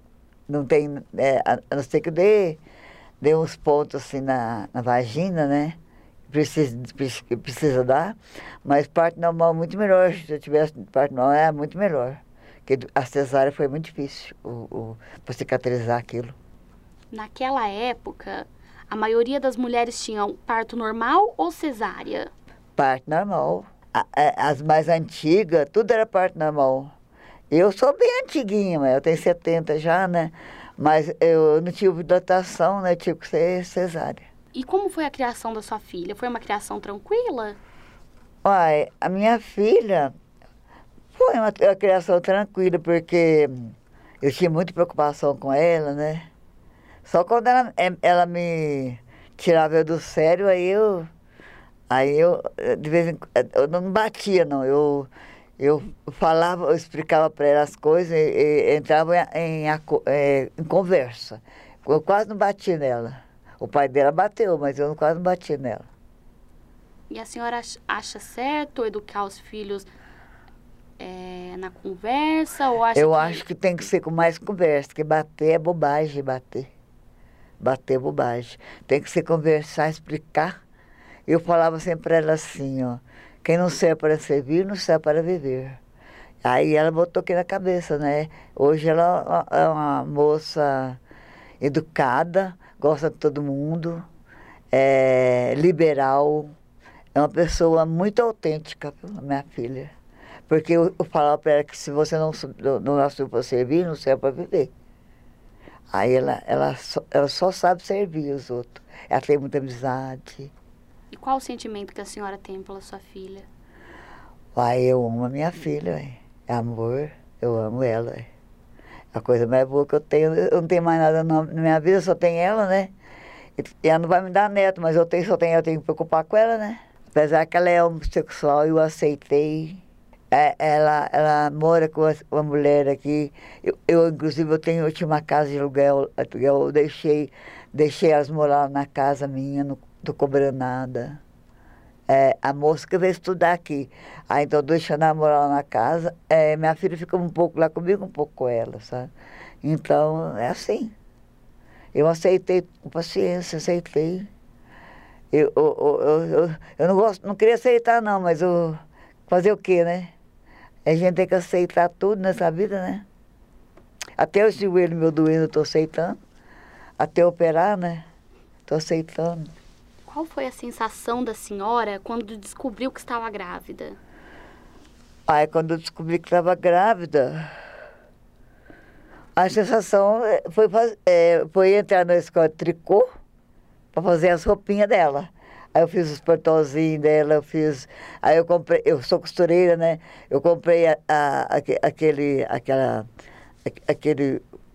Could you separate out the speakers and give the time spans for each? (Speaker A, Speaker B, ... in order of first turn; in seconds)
Speaker A: 0.5-2.6, 3.2-5.8, 6.3-16.4, 22.8-26.9, 27.5-34.3, 38.4-40.1, 41.1-46.3, 47.0-51.1, 51.9-65.9, 73.0-76.7, 77.6-80.6, 81.3-85.8, 86.4-91.0, 91.6-94.0, 94.7-96.5, 97.2-99.9, 100.5-104.7, 105.9-110.5, 114.5-118.3, 119.1-122.9, 123.5-141.2, 142.1-149.1, 149.6-150.9, 151.9-154.3, 155.3-160.1, 160.8-163.0, 164.2-166.2, 167.0-168.1, 168.7-169.5, 175.3-177.5, 179.3-183.0, 183.9-193.1, 193.7-194.4
Speaker B: 17.1-22.3, 34.5-37.6, 67.1-69.9, 71.0-73.4, 111.1-113.5, 170.1-174.0